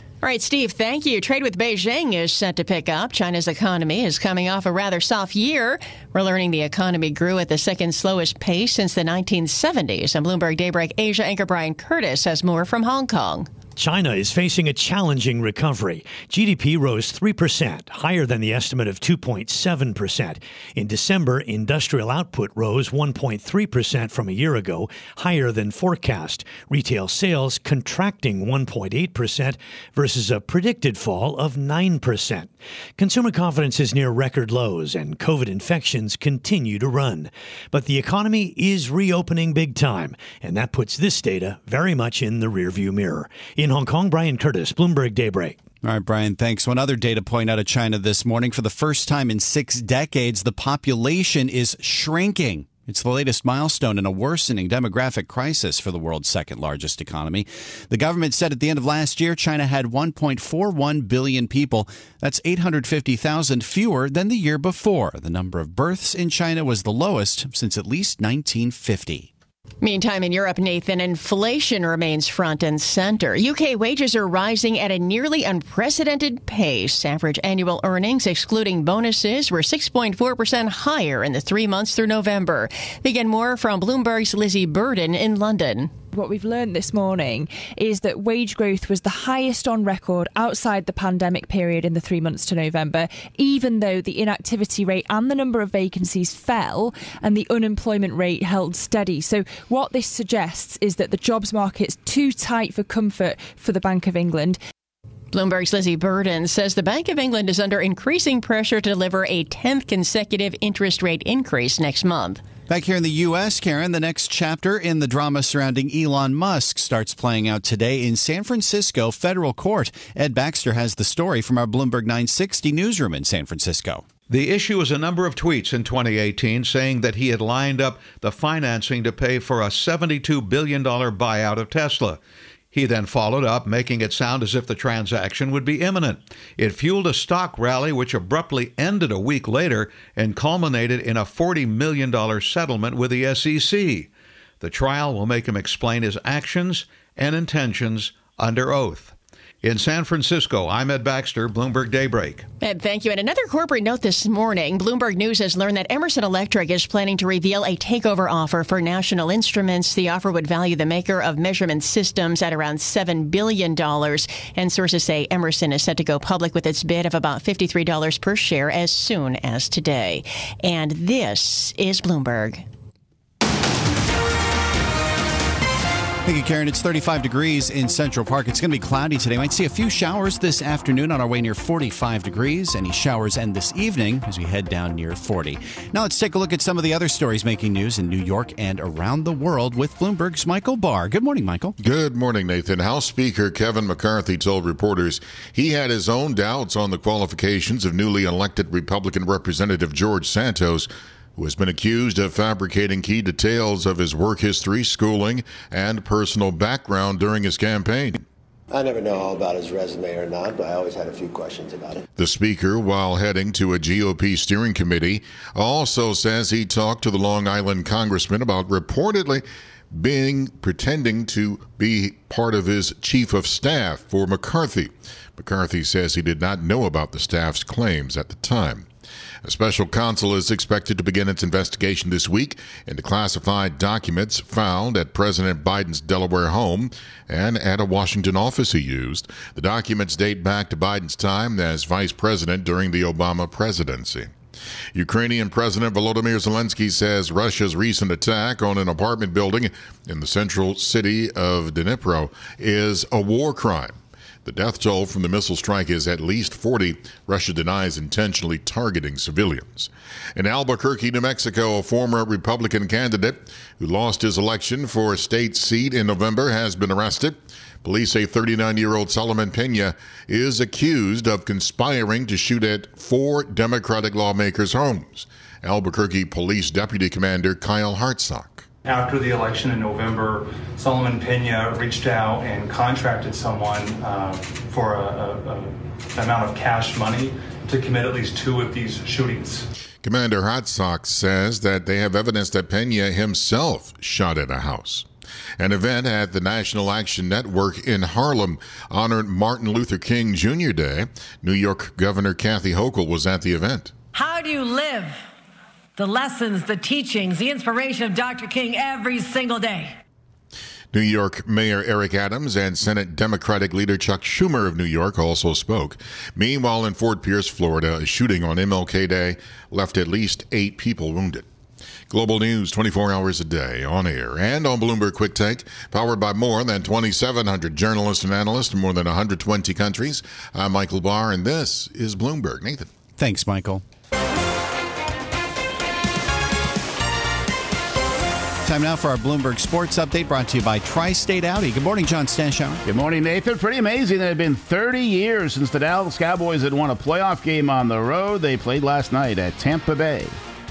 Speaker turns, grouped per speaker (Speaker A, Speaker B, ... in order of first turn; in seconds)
Speaker A: 0.2-13.5, 69.8-85.9, 105.3-112.4, 152.6-172.6
Speaker B: 13.8-45.6
Speaker C: 45.8-69.3, 112.7-124.0, 176.2-191.7, 333.2-333.8, 338.6-342.8
Speaker D: 86.1-104.6
Speaker E: 124.3-132.2, 132.7-144.1, 144.6-152.4
Speaker F: 191.8-208.2, 212.2-228.9, 229.4-244.3, 244.9-278.6, 290.0-295.1, 295.6-303.9, 310.9-321.4, 322.1-332.9
Speaker G: 208.7-212.0
Speaker H: 278.8-289.7
Speaker I: 304.1-305.1, 306.0-309.9
Speaker J: 342.9-350.3